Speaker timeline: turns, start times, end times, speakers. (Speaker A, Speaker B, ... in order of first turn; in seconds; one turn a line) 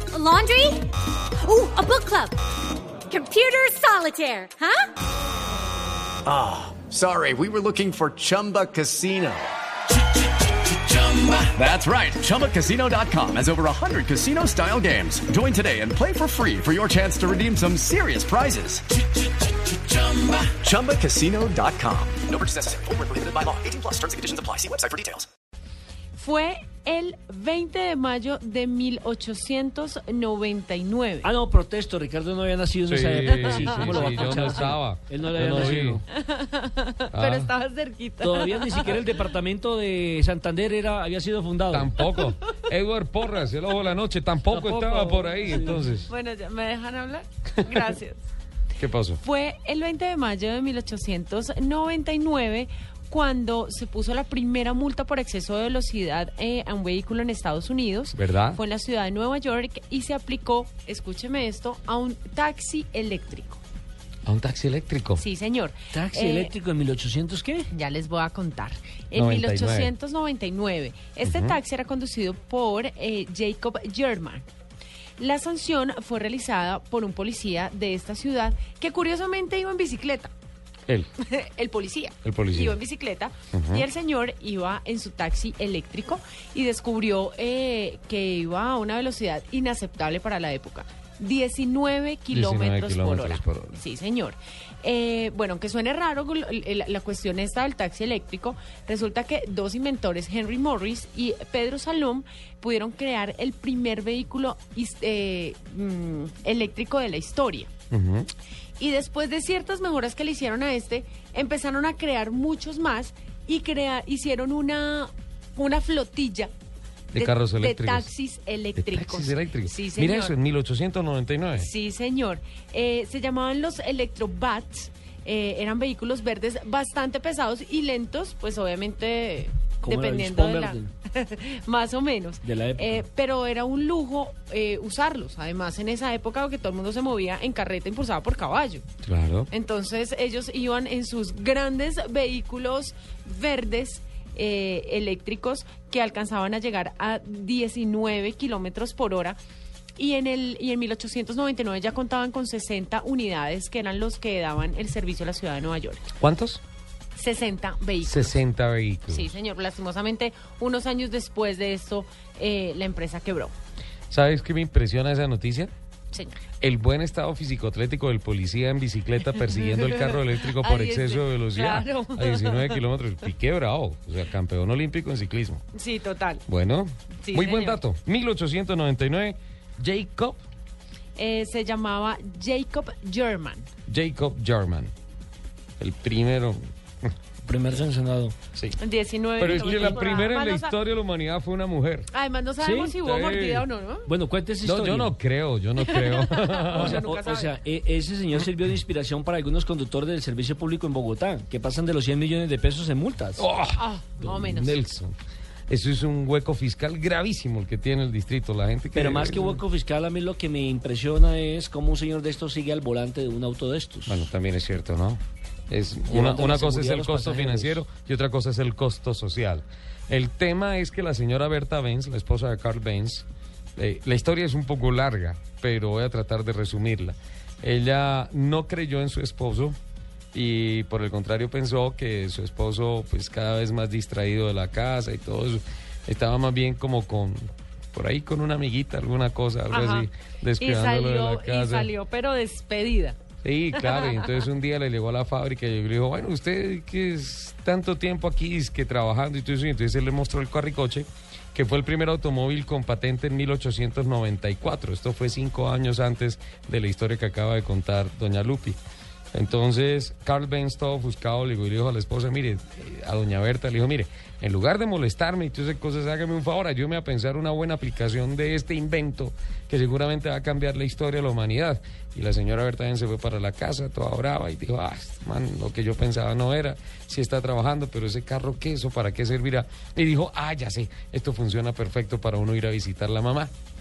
Speaker A: 0.1-2.4
Speaker A: 3.1-4.9
Speaker B: 6.2-9.5
Speaker B: 10.7-18.9
Speaker B: 19.8-25.3
Speaker C: 26.2-31.3
Speaker D: 31.2-36.1
Speaker E: 32.9-36.0
Speaker C: 33.4-34.4
Speaker C: 36.1-39.1
Speaker E: 37.1-37.5
Speaker D: 38.2-42.0
Speaker E: 41.7-46.1
Speaker C: 42.0-42.3
Speaker D: 44.5-45.8
Speaker C: 45.5-48.2
Speaker E: 48.8-49.2
Speaker C: 49.2-63.6
Speaker E: 58.1-58.6
Speaker E: 64.3-65.2
Speaker C: 65.2-66.5
Speaker D: 65.9-67.7
Speaker C: 67.7-74.5
Speaker E: 69.1-69.9
Speaker E: 71.2-71.6
Speaker C: 75.2-80.3
Speaker C: 81.2-107.7
Speaker E: 82.2-82.8
Speaker E: 83.5-83.8
Speaker E: 92.3-93.8
Speaker E: 107.9-108.3
Speaker C: 108.8-116.5
Speaker E: 117.1-118.1
Speaker C: 117.2-120.3
Speaker E: 118.8-121.7
Speaker C: 121.6-138.8
Speaker D: 129.8-130.9
Speaker D: 132.4-133.0
Speaker E: 139.0-139.5
Speaker C: 139.5-149.4
Speaker C: 150.0-156.1
Speaker E: 156.2-156.6
Speaker C: 157.2-158.4
Speaker E: 158.0-159.3
Speaker C: 159.1-163.5
Speaker E: 164.1-165.7
Speaker C: 166.1-166.4
Speaker E: 166.6-175.6
Speaker C: 169.5-172.8
Speaker C: 175.7-176.4
Speaker E: 176.5-180.4
Speaker C: 177.2-177.8
Speaker C: 181.2-183.7
Speaker E: 183.9-184.9
Speaker E: 185.8-186.6
Speaker D: 187.4-188.4
Speaker E: 188.5-188.8
Speaker C: 188.8-190.8
Speaker E: 189.4-192.1
Speaker D: 189.6-189.9
Speaker C: 192.1-194.1
Speaker D: 192.6-192.9
Speaker E: 193.0-193.7
Speaker D: 194.1-195.1
Speaker E: 194.6-197.1
Speaker C: 195.8-197.6
Speaker D: 196.8-203.5
Speaker E: 203.4-205.1
Speaker C: 203.8-204.8
Speaker E: 205.7-209.6
Speaker D: 208.9-214.3
Speaker E: 214.1-223.2
Speaker D: 216.1-217.8
Speaker E: 223.8-229.8
Speaker E: 230.3-241.9
Speaker C: 239.7-243.2
Speaker E: 243.4-258.8
Speaker C: 243.8-244.4
Speaker E: 259.3-283.5